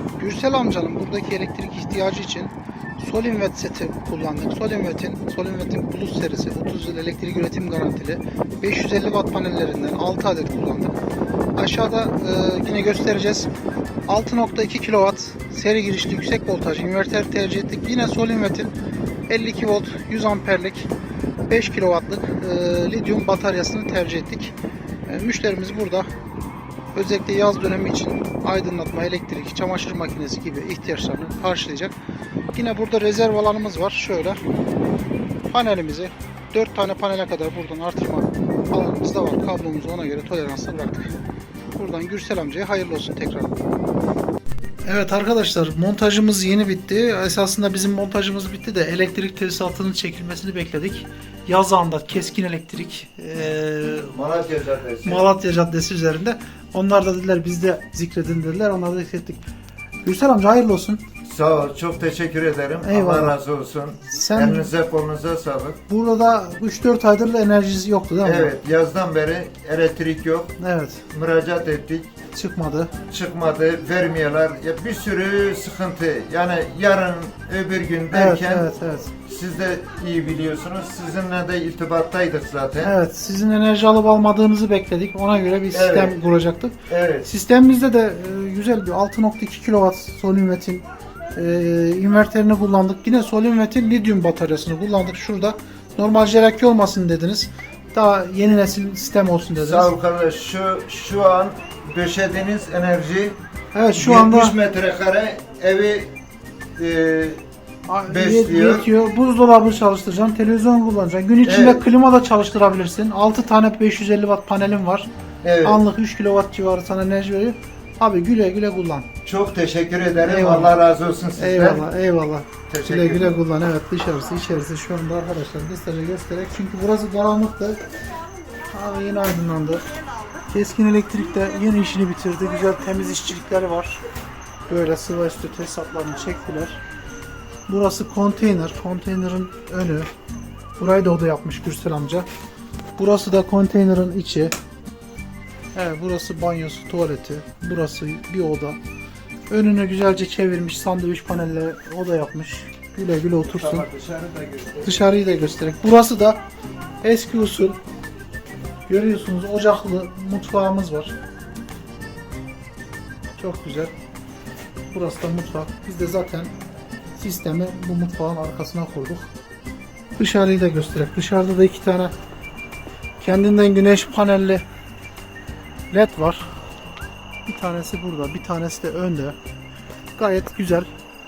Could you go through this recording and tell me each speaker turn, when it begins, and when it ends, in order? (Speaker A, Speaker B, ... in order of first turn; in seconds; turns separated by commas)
Speaker A: 0.2-10.9, Speaker A: 11.6-13.5, Speaker A: 14.1-18.7, Speaker A: 19.3-20.9, Speaker A: 21.5-24.5, Speaker A: 25.1-26.1, Speaker A: 26.9-31.9, Speaker A: 32.5-34.4, Speaker A: 35.5-41.2, Speaker A: 41.7-43.6, Speaker A: 44.9-54.1, Speaker B: 54.0-55.2, Speaker A: 55.0-59.4, Speaker A: 60.0-61.0, Speaker B: 61.2-65.8, Speaker A: 62.8-63.4, Speaker A: 64.1-64.7, Speaker A: 65.9-68.5, Speaker B: 68.2-70.6, Speaker A: 70.6-71.0, Speaker B: 71.1-72.1, Speaker A: 72.3-72.9, Speaker B: 73.1-78.7, Speaker A: 78.1-79.1, Speaker B: 79.2-82.9, Speaker A: 82.8-99.9, Speaker B: 85.7-86.2, Speaker B: 86.9-87.3, Speaker B: 99.6-103.4, Speaker A: 103.7-104.5, Speaker B: 104.0-106.1, Speaker B: 106.8-107.4, Speaker A: 107.9-115.1, Speaker B: 108.0-108.9, Speaker B: 111.4-111.8, Speaker B: 115.4-115.8, Speaker A: 115.6-119.1, Speaker B: 119.2-121.8, Speaker A: 120.2-120.7, Speaker A: 121.4-127.8, Speaker B: 122.7-123.3, Speaker A: 128.7-129.8, Speaker A: 130.5-134.0, Speaker A: 134.7-136.8, Speaker A: 137.7-140.1, Speaker A: 140.8-142.3, Speaker A: 143.0-144.5, Speaker A: 145.7-148.8, Speaker A: 149.5-153.9, Speaker B: 153.4-155.0, Speaker A: 154.8-156.4, Speaker A: 157.0-157.8, Speaker A: 158.9-161.1, Speaker A: 163.4-163.9, Speaker A: 164.9-166.5, Speaker A: 167.2-169.3, Speaker A: 170.2-172.1, Speaker A: 173.2-174.6, Speaker A: 175.9-176.5, Speaker A: 177.4-179.4, Speaker A: 180.1-180.9